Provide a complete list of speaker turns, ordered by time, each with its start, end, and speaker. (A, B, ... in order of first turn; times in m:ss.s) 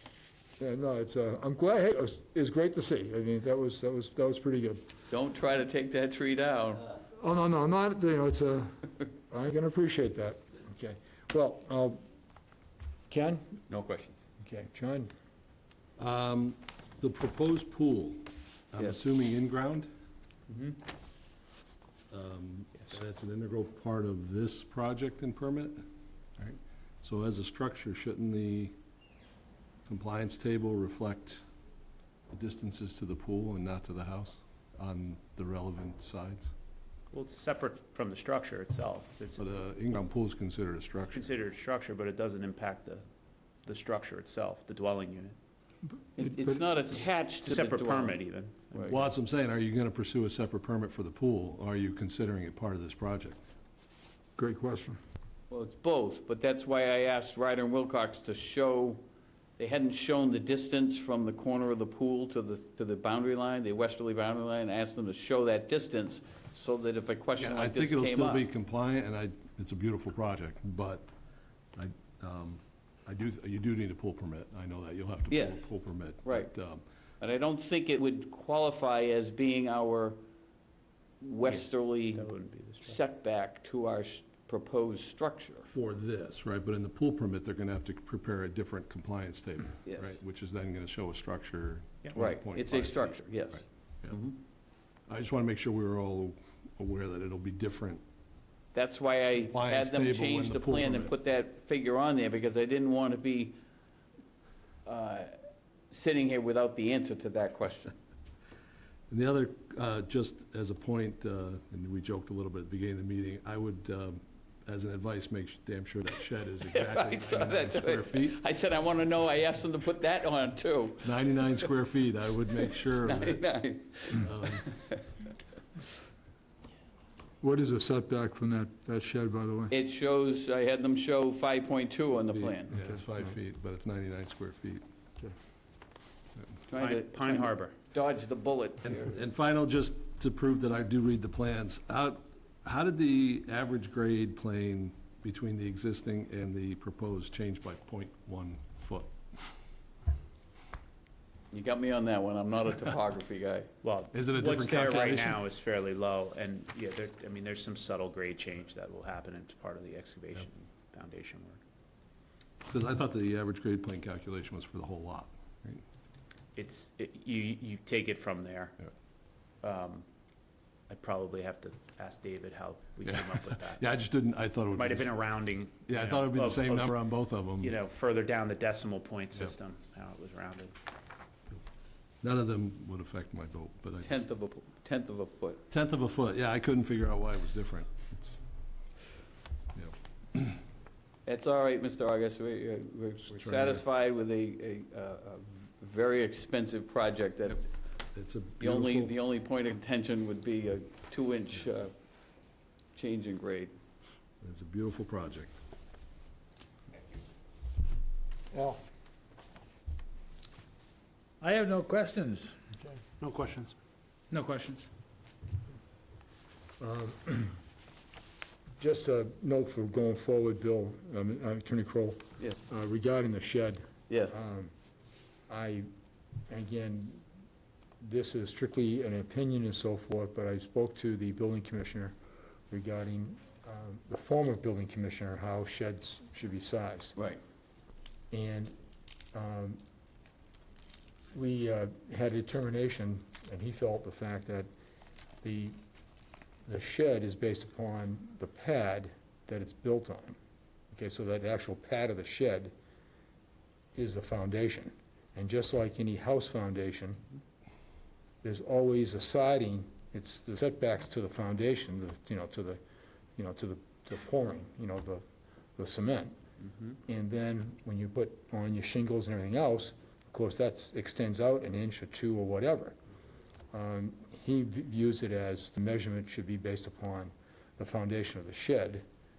0:00.6-0:04.8 A
0:05.1-0:06.9 B
0:07.2-0:12.0 A
0:13.1-0:13.5 A
0:13.7-0:14.2 C
0:14.4-0:15.1 A
0:16.0-0:19.9 D
0:20.5-0:20.8 C
0:22.1-0:25.8 D
0:26.4-0:28.7 D
0:29.8-0:31.4 D
0:32.3-0:36.5 D
0:37.1-0:39.6 C
0:39.4-0:41.3 D
0:41.1-0:43.0 C
0:43.6-0:45.4 C
0:46.2-0:48.2 B
0:46.2-0:46.6 A
0:47.4-0:49.0 C
0:48.7-0:49.0 B
0:48.9-0:53.4 D
0:54.4-0:55.0 A
0:55.5-0:59.0 B
0:59.6-1:08.5 B
1:07.4-1:11.1 D
1:11.8-1:16.8 D
1:15.3-1:15.7 B
1:16.2-1:16.5 B
1:17.2-1:20.2 B
1:21.2-1:22.3 B
1:21.4-1:23.0 C
1:22.8-1:25.7 B
1:25.7-1:33.4 D
1:29.8-1:30.2 B
1:32.2-1:34.4 B
1:35.1-1:38.0 D
1:38.7-1:43.6 B
1:39.5-1:41.1 D
1:44.8-1:45.4 B
1:45.9-1:47.9 B
1:49.1-1:58.4 D
1:56.7-2:01.7 B
2:01.0-2:04.7 D
2:02.9-2:05.1 B
2:07.4-2:09.7 A
2:09.7-2:12.7 B
2:12.2-2:14.8 D
2:12.7-2:13.3 A
2:16.7-2:19.1 B
2:16.8-2:17.7 C
2:18.8-2:29.2 D
2:31.5-2:33.7 B
2:33.8-2:41.6 C
2:34.1-2:35.4 D
2:42.6-2:45.8 D
2:46.6-2:48.8 C
2:49.6-2:50.0 C
2:50.9-2:53.8 C
2:53.0-2:55.1 D
2:54.8-2:57.0 C
2:55.9-2:57.7 D
2:57.6-3:00.7 C
3:02.2-3:04.1 D
3:04.0-3:05.6 B
3:05.7-3:08.4 D
3:09.7-3:10.6 D
3:11.2-3:17.6 B
3:13.3-3:13.8 D
3:18.1-3:19.2 D
3:18.6-3:21.9 B
3:22.9-3:23.7 B
3:24.4-3:25.5 D
3:28.5-3:28.8 A
3:31.4-3:32.5 E
3:33.2-3:33.7 E
3:34.3-3:34.8 E
3:36.8-3:37.6 A
3:38.8-3:44.7 A
3:44.1-3:44.4 B
3:45.5-3:45.9 A
3:46.5-3:47.2 A
3:48.0-3:52.1 A
3:52.7-3:57.2 A
3:58.3-3:58.8 A
3:59.3-3:59.8 A
4:01.3-4:04.7 A
4:05.4-4:05.8 A
4:06.6-4:10.4 A
4:10.9-4:12.7 A
4:13.9-4:17.2 A
4:18.4-4:22.8 A
4:23.4-4:25.2 A
4:25.8-4:26.4 A
4:27.1-4:33.0 A
4:33.7-4:39.0 A